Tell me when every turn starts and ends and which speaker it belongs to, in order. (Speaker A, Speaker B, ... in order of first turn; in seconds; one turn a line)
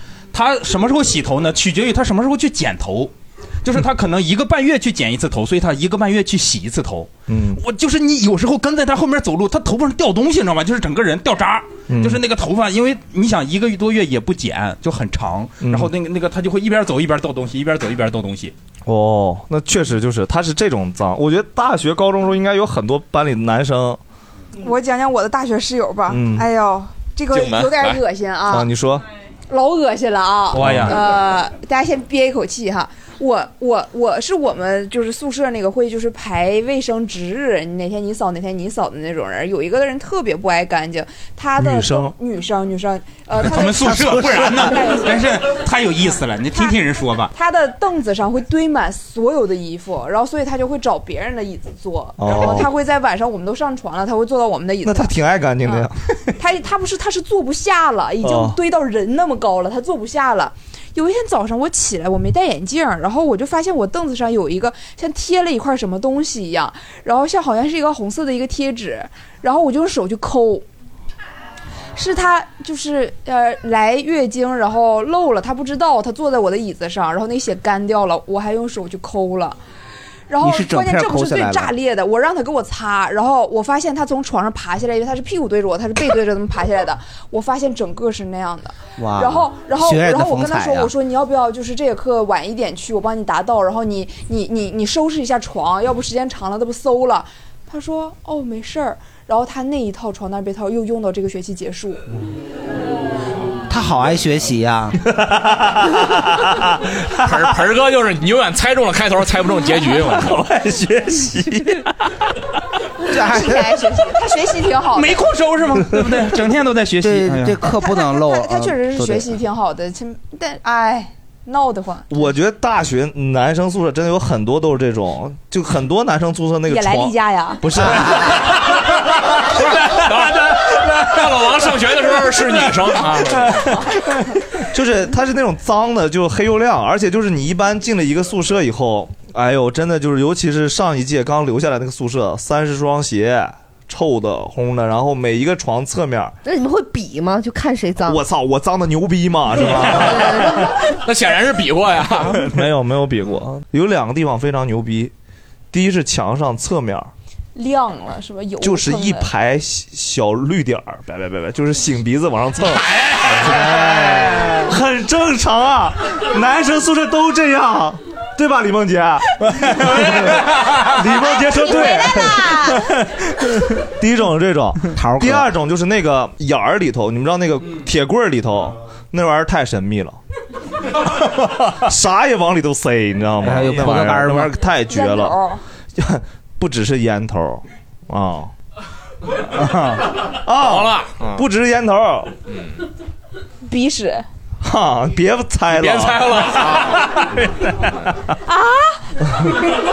Speaker A: 0.3-3.1
Speaker A: 3.6-18.5
Speaker B: 7.3-7.6
Speaker B: 11.9-12.2
Speaker B: 15.6-15.9
Speaker B: 18.8-24.0
Speaker C: 24.6-28.7
Speaker B: 26.1-26.5
Speaker D: 27.3-28.0
Speaker B: 28.5-29.0
Speaker C: 29.5-45.3
Speaker A: 30.5-31.0
Speaker B: 30.5-31.0
Speaker B: 41.6-42.1
Speaker A: 43.4-47.3
Speaker E: 44.2-44.7
Speaker C: 47.3-70.7
Speaker B: 52.2-52.7
Speaker B: 54.8-56.0
Speaker B: 58.2-58.6
Speaker C: 71.9-79.6
Speaker C: 80.3-102.0
Speaker E: 80.4-81.7
Speaker E: 89.0-90.9
Speaker E: 103.7-105.0
Speaker B: 105.2-106.8
Speaker D: 107.2-110.4
Speaker B: 110.1-111.9
Speaker E: 113.1-113.9
Speaker C: 113.1-115.2
Speaker A: 114.9-117.6
Speaker E: 117.0-119.3
Speaker C: 117.7-122.1
Speaker B: 122.1-128.3
Speaker C: 126.7-127.6
Speaker E: 127.8-128.5
Speaker D: 129.7-133.7
Speaker A: 133.1-133.3
Speaker B: 134.7-146.3
Speaker F: 146.4-148.2
Speaker B: 148.0-150.5
Speaker F: 149.9-150.8
Speaker D: 149.9-152.4
Speaker B: 152.4-155.1
Speaker B: 155.7-157.1
Speaker C: 157.5-159.3
Speaker B: 158.6-180.2
Speaker A: 169.5-171.2
Speaker F: 171.7-172.6
Speaker E: 174.9-175.5
Speaker B: 181.8-185.4
Speaker E: 183.4-184.5
Speaker C: 184.8-185.6
Speaker B: 185.9-188.5
Speaker B: 190.4-192.3
Speaker D: 190.6-191.4
Speaker D: 192.5-192.8
Speaker C: 193.7-194.2
Speaker B: 194.6-196.6
Speaker D: 195.7-197.2
Speaker B: 197.6-197.9
Speaker C: 198.5-198.9